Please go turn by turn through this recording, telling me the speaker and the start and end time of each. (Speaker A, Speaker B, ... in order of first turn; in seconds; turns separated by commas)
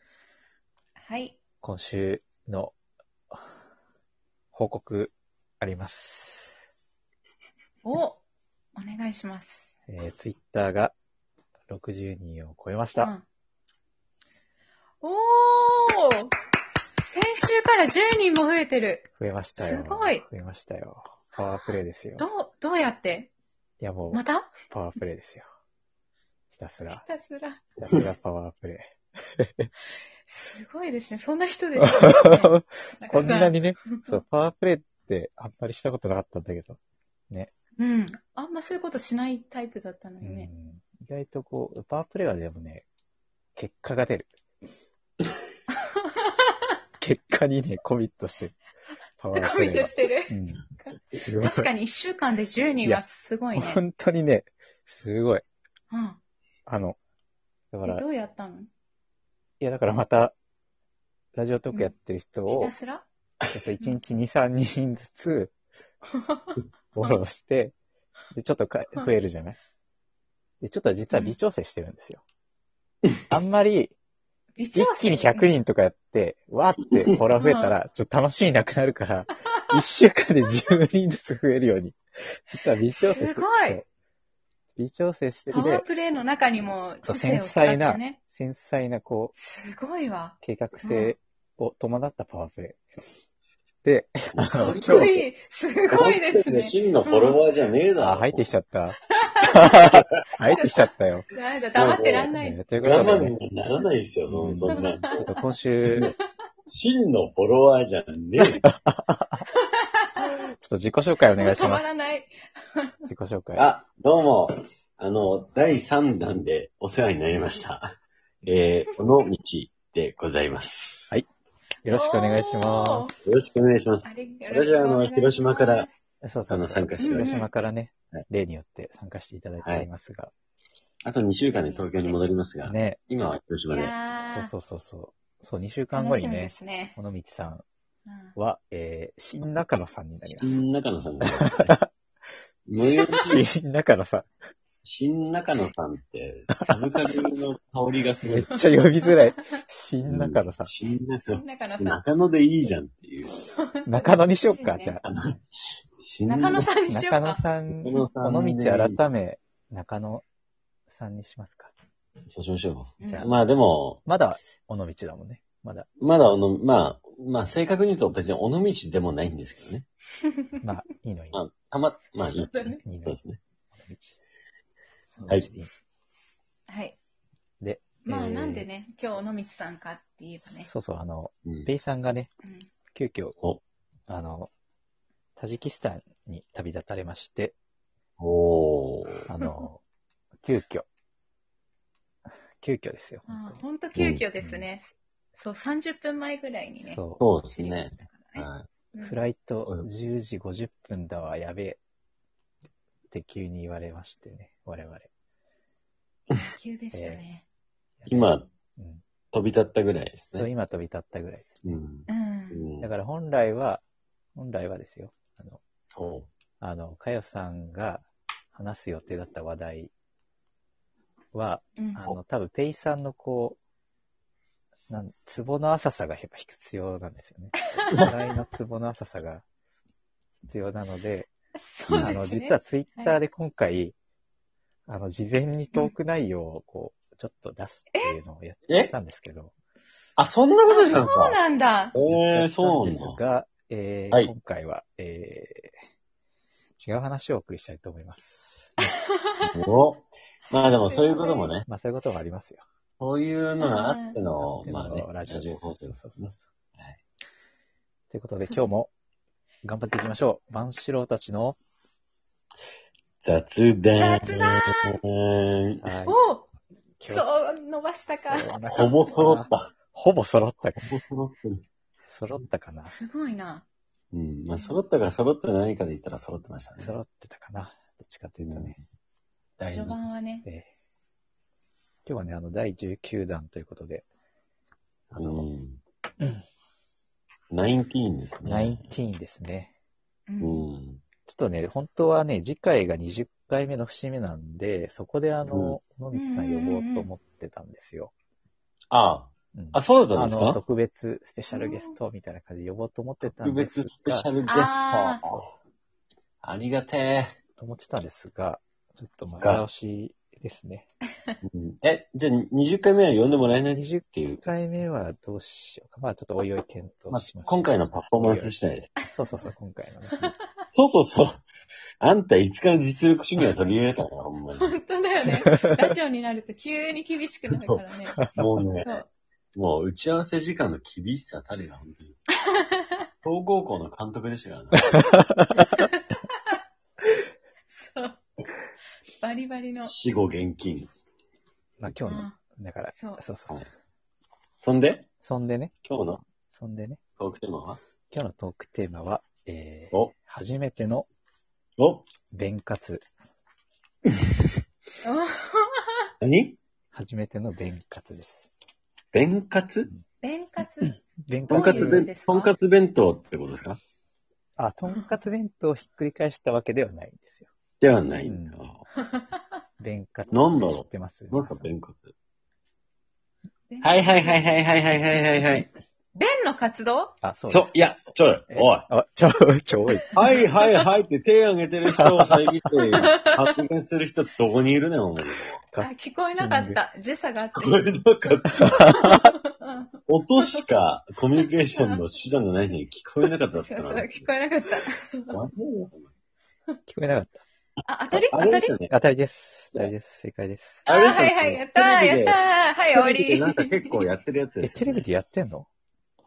Speaker A: 1.0-1.4, Speaker B: 1.6-2.8, Speaker B: 4.5-6.5, Speaker A: 7.8-8.2, Speaker A: 8.8-9.7, Speaker B: 9.9-10.9, Speaker B: 11.7-13.1, Speaker A: 13.0-13.2, Speaker A: 15.0-16.3, Speaker A: 17.0-20.2, Speaker B: 19.2-22.2, Speaker A: 22.2-23.3, Speaker B: 23.8-25.4, Speaker A: 24.1-24.6, Speaker B: 26.5-27.0, Speaker A: 26.8-27.6, Speaker B: 27.8-29.7, Speaker A: 30.2-34.2, Speaker B: 31.8-36.8, Speaker A: 37.8-40.5, Speaker B: 40.2-42.9, Speaker B: 43.5-44.3, Speaker A: 45.7-46.5, Speaker B: 47.0-48.6, Speaker B: 49.2-50.6, Speaker A: 49.3-53.8, Speaker B: 51.2-51.7, Speaker B: 53.5-55.4, Speaker A: 55.9-56.2, Speaker B: 56.7-57.0, Speaker B: 57.7-58.0, Speaker A: 57.8-58.7, Speaker B: 59.6-60.3, Speaker B: 61.3-62.7, Speaker A: 62.5-63.0, Speaker B: 63.5-65.5, Speaker A: 66.1-67.2, Speaker B: 67.0-67.7, Speaker B: 68.3-69.6, Speaker B: 70.6-72.2, Speaker B: 73.3-73.9, Speaker A: 74.5-75.5, Speaker B: 74.7-82.0, Speaker A: 77.4-77.7, Speaker B: 82.5-83.8, Speaker A: 83.0-83.8, Speaker B: 84.8-85.8, Speaker A: 85.5-88.2, Speaker B: 87.0-89.3, Speaker A: 89.3-91.1, Speaker B: 90.4-92.8, Speaker B: 93.8-95.2, Speaker C: 94.3-95.2, Speaker A: 94.8-97.4, Speaker C: 95.9-98.5, Speaker B: 98.0-101.3, Speaker A: 99.2-102.6, Speaker C: 101.7-105.2, Speaker B: 102.3-103.3, Speaker B: 104.3-106.1, Speaker A: 104.8-105.3, Speaker C: 105.8-106.1, Speaker C: 106.7-108.6, Speaker B: 108.4-109.4, Speaker A: 109.5-110.3, Speaker B: 110.2-111.9, Speaker A: 111.4-113.0, Speaker B: 113.0-113.7, Speaker C: 113.5-121.1, Speaker B: 121.8-123.1, Speaker A: 121.9-123.1, Speaker C: 123.2-125.9, Speaker A: 124.0-126.0, Speaker B: 126.2-130.3, Speaker C: 126.5-127.5, Speaker A: 127.0-127.5, Speaker C: 129.6-129.9, Speaker C: 131.0-133.9, Speaker A: 131.4-132.2, Speaker B: 132.7-133.0, Speaker A: 133.7-134.5, Speaker B: 134.2-137.6, Speaker A: 135.9-137.0, Speaker A: 138.1-138.3, Speaker B: 138.3-140.6, Speaker C: 140.4-141.7, Speaker B: 141.2-141.9, Speaker C: 142.7-143.4, Speaker A: 142.8-143.3, Speaker B: 143.2-144.3, Speaker C: 144.8-148.6, Speaker B: 148.2-150.7, Speaker A: 149.0-149.4, Speaker C: 150.1-153.4, Speaker A: 151.3-152.0, Speaker A: 153.5-155.0, Speaker B: 153.8-155.0, Speaker C: 155.0-156.7, Speaker A: 156.2-158.1, Speaker B: 156.9-160.2, Speaker C: 157.7-159.1, Speaker B: 160.9-161.7, Speaker C: 162.3-164.0, Speaker A: 163.0-163.3, Speaker B: 163.0-163.3, Speaker B: 164.0-165.9, Speaker C: 166.0-169.8, Speaker B: 170.6-171.4, Speaker C: 171.3-173.4, Speaker A: 172.3-172.8, Speaker B: 172.8-173.2, Speaker B: 173.7-174.2, Speaker B: 175.1-175.7, Speaker A: 176.7-177.0, Speaker B: 177.6-178.7, Speaker A: 178.1-180.7, Speaker B: 180.4-182.3, Speaker A: 182.4-182.7, Speaker B: 182.9-183.4, Speaker B: 184.1-184.5, Speaker B: 185.4-187.5, Speaker C: 188.2-189.3, Speaker B: 189.3-189.8, Speaker A: 189.4-189.7, Speaker B: 190.4-190.8, Speaker B: 192.6-193.6, Speaker A: 193.3-199.2, Speaker C: 193.9-194.2, Speaker B: 194.4-194.7, Speaker B: 196.8-197.2, Speaker C: 197.2-198.7, Speaker B: 199.0-201.8, Speaker B: 203.1-205.1, Speaker A: 206.4-207.4, Speaker B: 206.9-207.2, Speaker B: 208.0-209.0, Speaker C: 208.1-208.4, Speaker C: 209.3-210.5, Speaker B: 210.3-211.6, Speaker C: 211.6-212.9, Speaker A: 212.1-212.6, Speaker B: 212.8-213.8, Speaker B: 214.3-215.6, Speaker C: 215.9-216.3, Speaker B: 216.6-219.9, Speaker B: 221.3-223.6, Speaker A: 221.8-222.1, Speaker B: 224.9-229.4, Speaker B: 230.4-231.3, Speaker A: 231.5-233.2, Speaker C: 231.9-232.2, Speaker B: 232.0-233.9, Speaker B: 234.9-239.5, Speaker C: 238.7-238.9, Speaker C: 240.2-241.4, Speaker A: 240.7-241.9, Speaker C: 241.9-243.2, Speaker B: 241.9-245.7, Speaker B: 246.8-248.9, Speaker A: 248.8-249.5, Speaker C: 249.4-251.7, Speaker A: 250.7-251.5, Speaker B: 251.7-252.6, Speaker C: 253.0-257.0, Speaker A: 253.6-254.2, Speaker B: 254.3-256.4, Speaker B: 258.1-258.9, Speaker B: 259.6-261.6, Speaker C: 263.2-265.8, Speaker A: 263.9-265.0, Speaker B: 265.8-266.2, Speaker A: 266.1-266.5, Speaker B: 267.0-267.3, Speaker A: 267.1-269.0, Speaker B: 268.3-271.0, Speaker C: 268.6-269.7, Speaker C: 270.8-271.6, Speaker B: 272.1-272.9, Speaker A: 272.8-273.6, Speaker C: 274.1-277.0, Speaker A: 274.5-274.8, Speaker B: 276.8-278.8, Speaker C: 278.4-278.8, Speaker C: 279.6-280.0, Speaker A: 279.7-280.4, Speaker B: 282.1-284.1, Speaker C: 285.1-285.8, Speaker B: 285.1-285.5, Speaker C: 287.5-288.9, Speaker B: 288.4-289.7, Speaker A: 290.3-290.7, Speaker C: 290.4-291.0, Speaker B: 291.2-298.1, Speaker C: 295.5-295.8, Speaker A: 296.1-297.1, Speaker C: 298.9-300.6, Speaker B: 299.5-304.3, Speaker A: 301.5-301.9, Speaker C: 303.2-305.5, Speaker A: 304.5-305.2, Speaker C: 306.4-307.3, Speaker B: 307.6-310.9, Speaker C: 309.4-309.6, Speaker C: 311.4-314.5, Speaker B: 313.7-318.5, Speaker C: 317.1-318.9, Speaker A: 319.0-319.5, Speaker B: 319.1-320.3, Speaker A: 320.2-320.5, Speaker C: 320.7-321.4, Speaker C: 322.0-324.8, Speaker A: 324.6-328.2, Speaker B: 325.4-325.9, Speaker B: 328.1-328.4, Speaker C: 328.3-332.2, Speaker A: 332.5-333.0, Speaker C: 333.2-335.0, Speaker B: 334.9-335.7, Speaker A: 335.6-336.6, Speaker A: 337.7-338.2, Speaker A: 339.2-339.9, Speaker C: 339.8-340.9, Speaker B: 341.8-343.7, Speaker A: 342.1-342.3, Speaker A: 342.9-343.2, Speaker C: 344.6-345.1, Speaker B: 345.2-345.7, Speaker C: 345.8-346.2, Speaker B: 346.5-347.0, Speaker C: 347.2-347.8, Speaker B: 348.1-351.1, Speaker C: 351.8-352.0, Speaker B: 352.3-353.0, Speaker A: 355.0-356.1, Speaker C: 356.2-356.6, Speaker B: 356.9-358.5, Speaker C: 359.1-359.9, Speaker A: 360.2-362.5, Speaker B: 360.9-362.1, Speaker C: 361.5-363.8, Speaker B: 364.6-367.5, Speaker C: 367.8-368.8, Speaker B: 368.2-368.6, Speaker B: 369.8-371.7, Speaker C: 370.3-372.1, Speaker A: 373.7-374.7, Speaker C: 373.8-375.7, Speaker A: 376.1-377.1, Speaker B: 377.2-377.8, Speaker C: 377.5-378.9, Speaker B: 378.5-380.2, Speaker C: 380.1-385.6, Speaker A: 380.4-380.8, Speaker B: 381.9-382.8, Speaker A: 383.0-383.6, Speaker B: 385.7-386.8, Speaker A: 385.8-389.8, Speaker C: 387.6-388.8, Speaker B: 388.6-389.3, Speaker C: 390.1-394.3, Speaker A: 390.4-390.6, Speaker A: 393.5-395.4, Speaker C: 395.3-396.1, Speaker B: 396.9-397.4, Speaker A: 397.9-398.7, Speaker C: 398.3-398.9, Speaker B: 398.9-400.9, Speaker C: 400.9-402.4, Speaker A: 400.9-404.0, Speaker C: 402.9-405.1, Speaker B: 404.6-405.7